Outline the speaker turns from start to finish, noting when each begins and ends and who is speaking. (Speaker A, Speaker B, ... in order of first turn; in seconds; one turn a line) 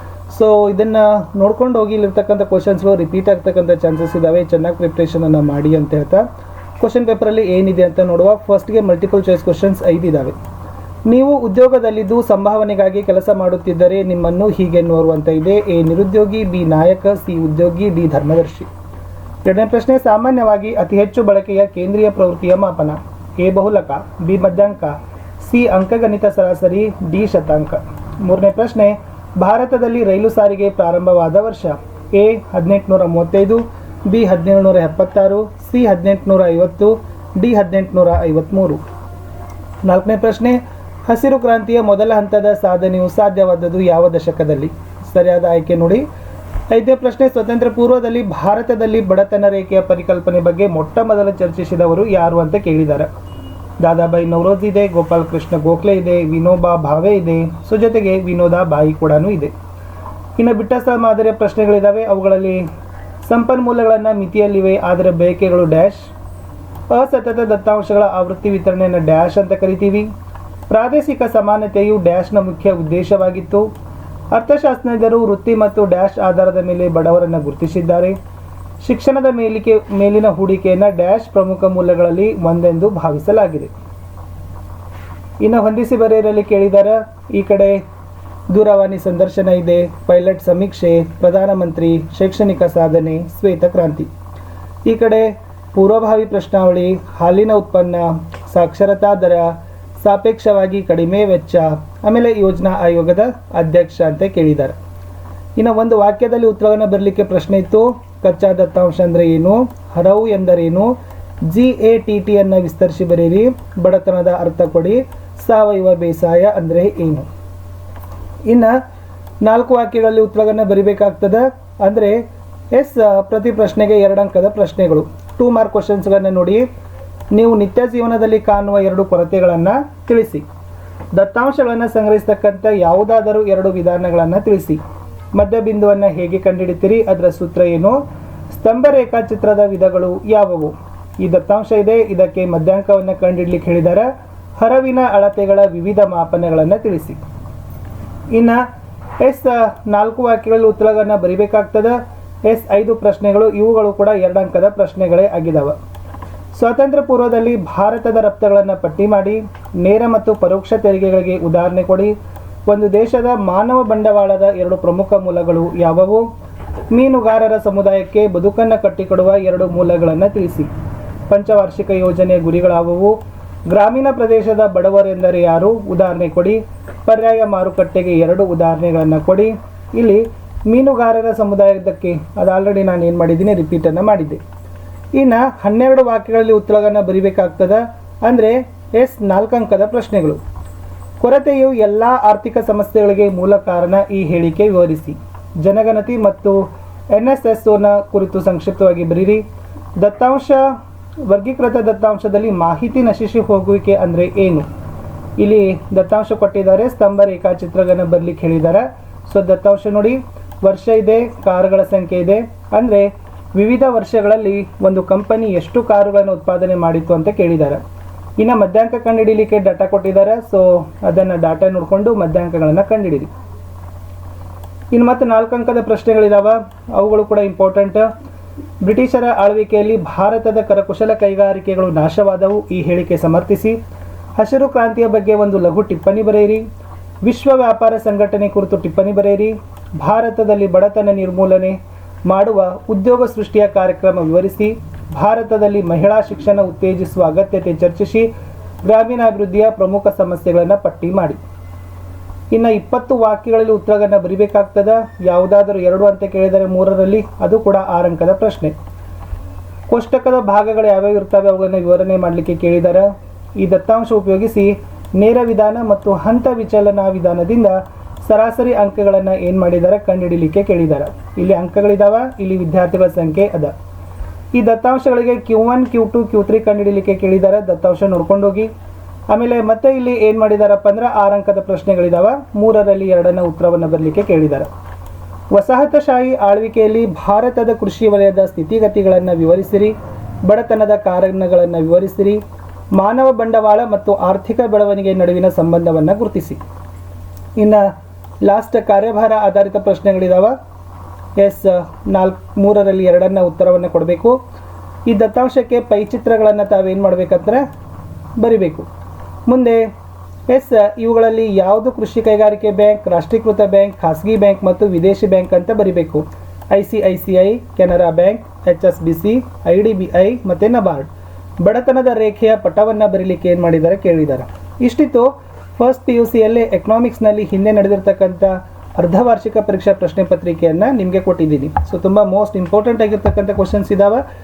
Speaker A: 0.3-6.2
Speaker A: 6.8-10.3
Speaker A: 11.1-18.7
Speaker A: 19.4-38.8
Speaker A: 39.8-46.0
Speaker A: 46.7-53.1
Speaker A: 53.8-59.5
Speaker A: 60.4-62.6
Speaker A: 63.2-66.1
Speaker A: 66.9-70.1
Speaker A: 70.7-73.7
Speaker A: 74.3-78.2
Speaker A: 78.8-83.7
Speaker A: 85.4-87.8
Speaker A: 88.5-94.1
Speaker A: 94.8-104.8
Speaker A: 105.6-110.9
Speaker A: 111.5-117.3
Speaker A: 118.5-118.8
Speaker A: 119.4-126.6
Speaker A: 127.3-130.4
Speaker A: 131.1-134.8
Speaker A: 135.3-138.0
Speaker A: 138.5-147.2
Speaker A: 148.3-148.6
Speaker A: 149.2-155.7
Speaker A: 156.5-162.1
Speaker A: 162.7-166.2
Speaker A: 166.9-170.7
Speaker A: 171.3-173.2
Speaker A: 173.7-184.4
Speaker A: 185.1-190.4
Speaker A: 191.2-196.6
Speaker A: 197.1-199.4
Speaker A: 200.0-200.8
Speaker A: 201.3-204.7
Speaker A: 205.4-217.8
Speaker A: 218.4-223.3
Speaker A: 224.9-228.1
Speaker A: 228.8-233.8
Speaker A: 234.4-236.6
Speaker A: 237.2-248.3
Speaker A: 248.8-251.4
Speaker A: 252.5-258.7
Speaker A: 259.9-263.1
Speaker A: 263.6-273.7
Speaker A: 274.5-278.7
Speaker A: 279.3-284.7
Speaker A: 285.5-292.4
Speaker A: 292.9-296.6
Speaker A: 297.6-297.9
Speaker A: 298.4-300.5
Speaker A: 301.4-304.4
Speaker A: 305.1-307.6
Speaker A: 308.4-308.9
Speaker A: 309.5-309.9
Speaker A: 310.5-321.1
Speaker A: 321.6-334.2